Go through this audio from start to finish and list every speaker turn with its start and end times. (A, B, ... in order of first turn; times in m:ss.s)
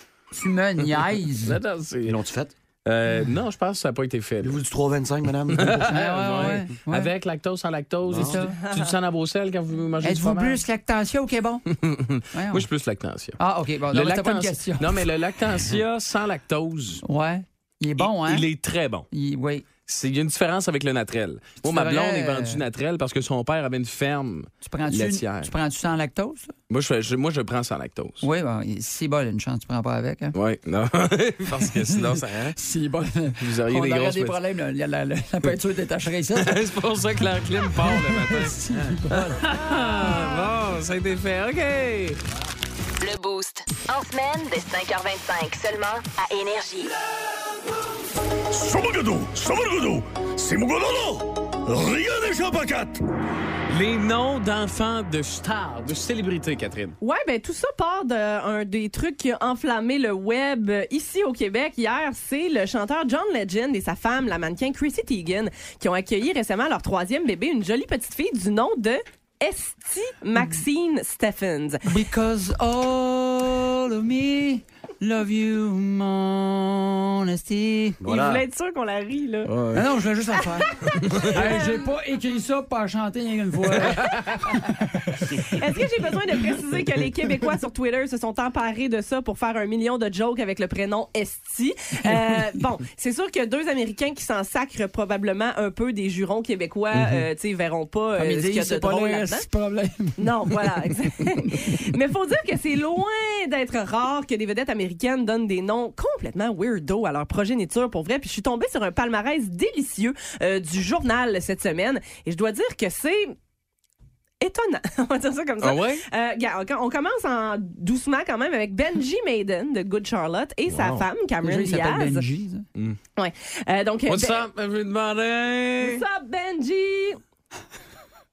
0:00.3-0:01.6 A
0:01.4-0:02.2 B
0:02.0-0:02.5 C
0:02.8-0:04.6 B
0:04.4-0:06.0 C
0:05.5-0:10.6 B
0:05.8-0:07.1 A
0:08.0-0:08.4 C
0:08.5-0:09.0 D
0:10.0-0:11.6 A
0:11.7-0:13.4 B
0:12.3-0:12.6 A
0:13.4-0:15.0 A
0:13.9-0:17.0 B
0:17.0-0:18.5 A
0:18.0-0:19.1 B
0:19.1-0:19.6 A
0:19.9-0:25.5 B
0:21.6-0:22.6 A
0:24.6-0:26.5 A
0:26.7-0:28.2 B
0:28.2-0:30.3 A
0:30.3-0:32.6 B
0:31.6-0:36.6 A
0:33.4-0:34.4 B
0:36.4-0:42.2 B
0:37.8-0:39.5 A
0:43.0-0:46.9 E
0:48.5-0:53.0 B
0:53.7-0:57.0 B
0:57.0-1:11.8 D
1:11.8-1:18.0 A
1:18.0-1:18.4 C
1:18.0-1:19.5 D
1:19.4-1:19.8 B
1:19.7-1:24.7 A
1:21.1-1:21.8 D
1:24.0-1:24.3 B
1:25.4-1:39.5 D
1:38.2-1:40.5 A
1:40.2-1:53.4 D
1:54.4-2:02.2 D
1:55.6-1:56.0 B
2:00.7-2:01.1 B
2:01.4-2:02.6 A
2:03.2-2:04.4 D
2:04.1-2:06.0 B
2:05.8-2:07.2 D